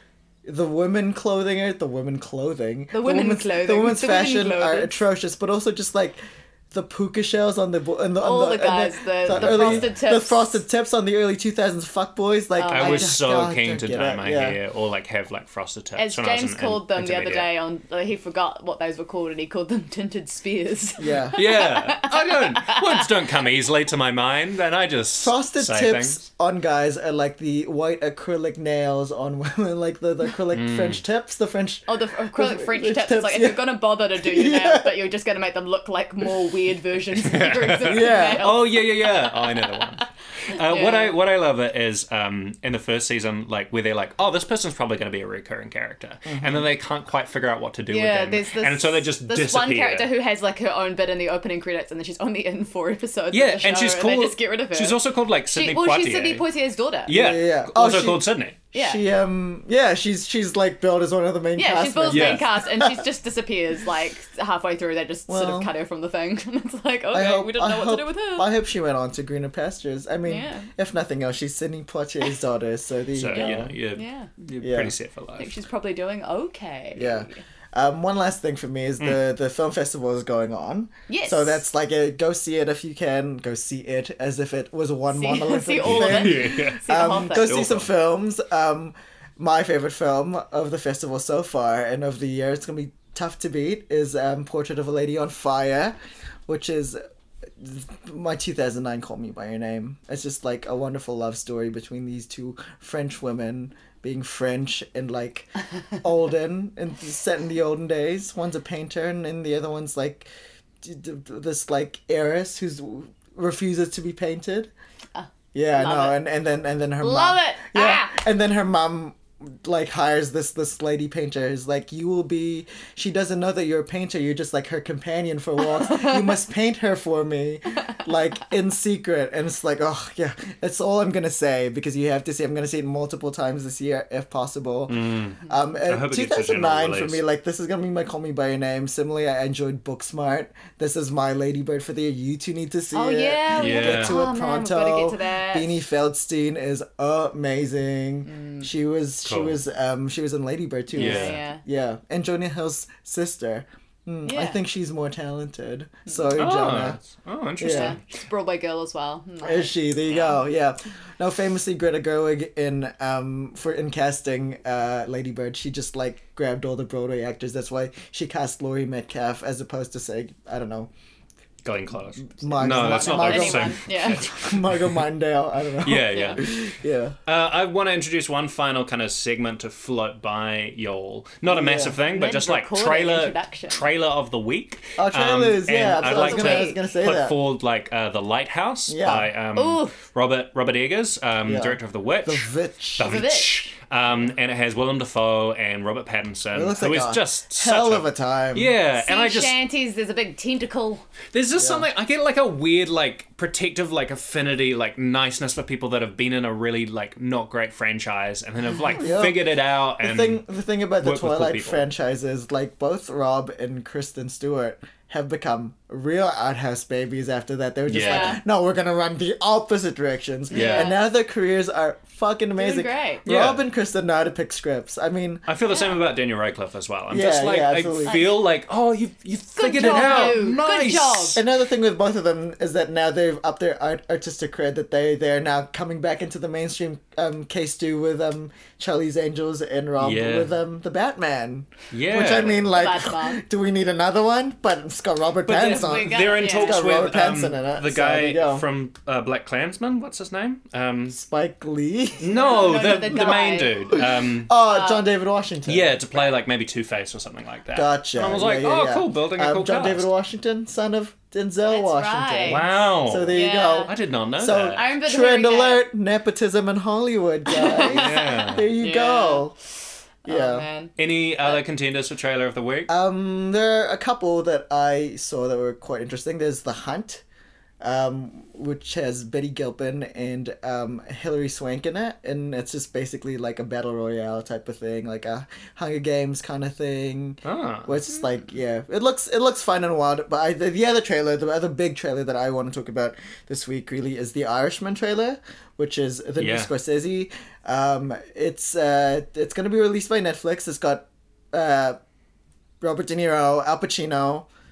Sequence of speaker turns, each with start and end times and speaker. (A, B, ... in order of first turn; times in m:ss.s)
0:00.4-0:06.2 A
0:02.9-0:04.9 B
0:06.7-0:14.6 A
0:08.2-0:10.6 B
0:09.3-0:09.9 C
0:12.6-0:13.2 B
0:12.7-0:17.5 C
0:16.0-0:23.3 B
0:21.0-0:21.4 A
0:21.4-0:26.2 C
0:25.2-0:35.0 A
0:30.5-0:31.0 C
0:31.9-0:41.2 B
0:37.2-0:50.1 C
0:37.8-0:38.5 A
0:46.2-0:46.7 A
0:47.9-0:57.1 B
0:53.3-0:56.4 C
0:57.0-0:58.6 C
0:57.1-1:03.0 A
0:58.7-0:59.0 B
1:01.6-1:08.5 B
1:02.1-1:02.5 C
1:05.3-1:05.7 A
1:07.1-1:13.7 A
1:10.2-1:10.7 B
1:13.1-1:15.5 C
1:13.3-1:14.3 B
1:14.6-1:14.9 A
1:15.4-1:17.4 B
1:16.9-1:36.0 A
1:21.1-1:21.6 B
1:25.1-1:27.6 B
1:25.8-1:27.9 C
1:36.5-1:37.0 A
1:37.6-1:45.5 A
1:46.0-1:50.3 A
1:50.8-1:54.7 A
1:55.1-1:56.2 B
1:55.5-2:37.0 A
1:57.0-1:58.2 B
2:05.6-2:06.4 B
2:14.9-2:17.2 C
2:22.9-2:25.8 B
2:23.5-2:24.2 C
2:28.3-2:28.7 B
2:29.2-2:29.6 C
2:30.9-2:31.6 B
2:31.0-2:31.4 C
2:34.2-2:34.6 B
2:36.3-2:38.0 C
2:37.6-2:38.0 A
2:37.6-2:40.4 B
2:39.4-2:50.9 A
2:51.6-2:55.0 C
2:52.2-2:57.2 A
2:52.6-2:54.3 B
2:55.8-2:56.6 C
2:56.1-2:56.4 B
2:57.2-3:19.6 C
3:01.5-3:02.0 A
3:02.1-3:03.9 B
3:05.0-3:07.4 A
3:06.0-3:06.8 B
3:08.9-3:09.3 A
3:09.6-3:10.0 B
3:11.4-3:13.2 A
3:13.0-3:13.7 B
3:16.5-3:18.7 A
3:18.9-3:21.0 B
3:21.3-3:30.4 C
3:21.6-3:21.8 A
3:28.9-3:45.4 A
3:31.0-3:31.8 C
3:37.9-3:38.4 C
3:37.9-3:38.4 B
3:40.5-3:40.9 C
3:40.5-3:41.0 B
3:42.6-3:43.2 B
3:43.2-3:43.6 C
3:45.5-3:51.4 C
3:47.1-3:48.2 A
3:48.0-3:48.4 B
3:49.5-3:51.4 B
3:51.3-4:08.6 A
4:00.0-4:00.5 C
4:01.9-4:02.7 C
4:02.6-4:03.4 B
4:05.4-4:06.8 B
4:05.8-4:11.2 C
4:11.1-4:16.0 A
4:12.2-4:14.5 C
4:12.3-4:13.9 B
4:14.6-4:15.1 B
4:15.6-4:20.1 C
4:17.7-4:29.5 A
4:21.6-4:22.7 B
4:22.4-4:24.9 C
4:23.3-4:23.9 B
4:24.7-4:25.8 B
4:27.5-4:29.5 B
4:27.8-4:28.7 C
4:30.2-4:30.6 A
4:30.2-4:31.6 B
4:31.0-4:32.9 C
4:32.9-4:37.2 A
4:37.8-5:02.0 A
4:47.4-4:48.0 C
4:56.4-4:56.7 C
5:02.8-5:04.5 A